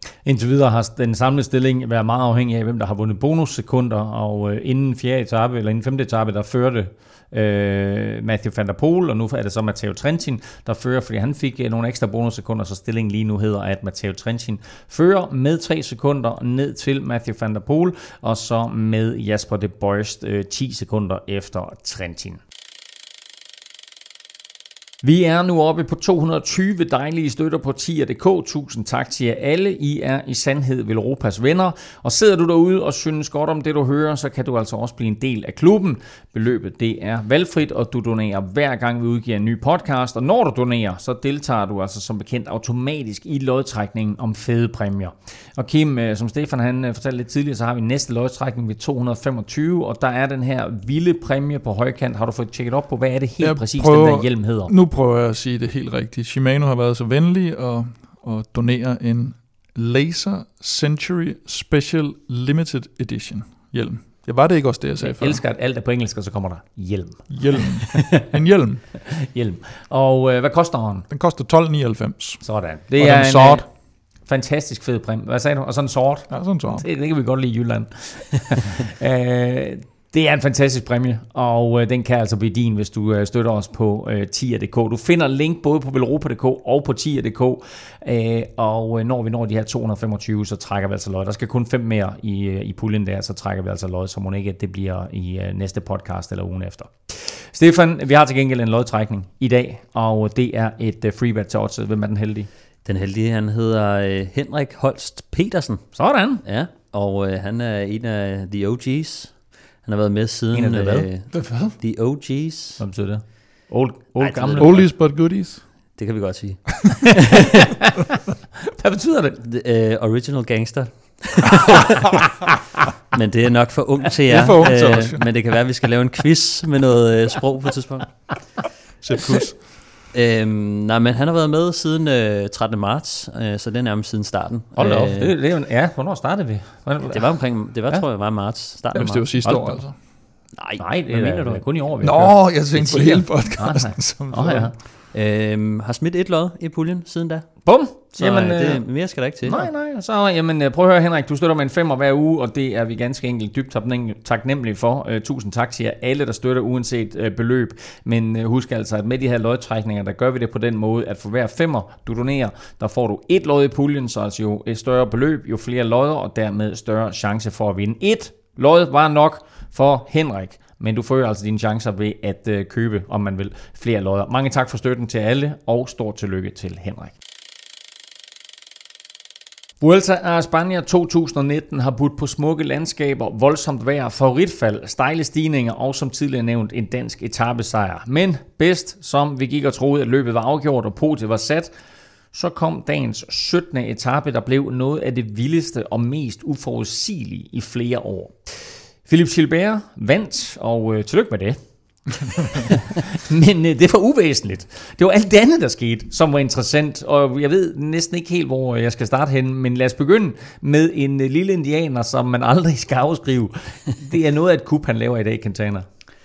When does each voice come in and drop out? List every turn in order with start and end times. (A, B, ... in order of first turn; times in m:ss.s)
0:00.2-0:22.4 A
0:25.0-0:54.7 A
0:53.4-1:05.4 B
1:05.0-1:08.2 A
1:07.3-1:09.0 B
1:09.1-1:11.1 A
1:11.1-1:13.7 B
1:12.4-1:42.5 A
1:16.3-1:16.9 B
1:42.8-1:52.8 C
1:46.0-1:46.4 A
1:50.5-1:51.1 A
1:51.3-1:51.8 B
1:52.8-1:54.8 A
1:54.2-1:55.0 C
1:54.6-1:55.7 B
1:55.9-1:57.3 C
1:58.8-1:59.4 A
1:59.4-2:02.0 C
2:03.1-2:08.3 C
2:04.3-2:05.2 B
2:09.0-2:09.8 B
2:10.1-2:15.3 C
2:14.8-2:18.0 A
2:17.1-2:19.3 C
2:18.9-2:20.1 B
2:19.4-2:24.7 A
2:20.5-2:21.6 C
2:22.0-2:24.7 B
2:25.1-2:29.7 C
2:27.6-2:57.1 A
2:59.8-3:11.7 A
3:12.3-3:35.9 A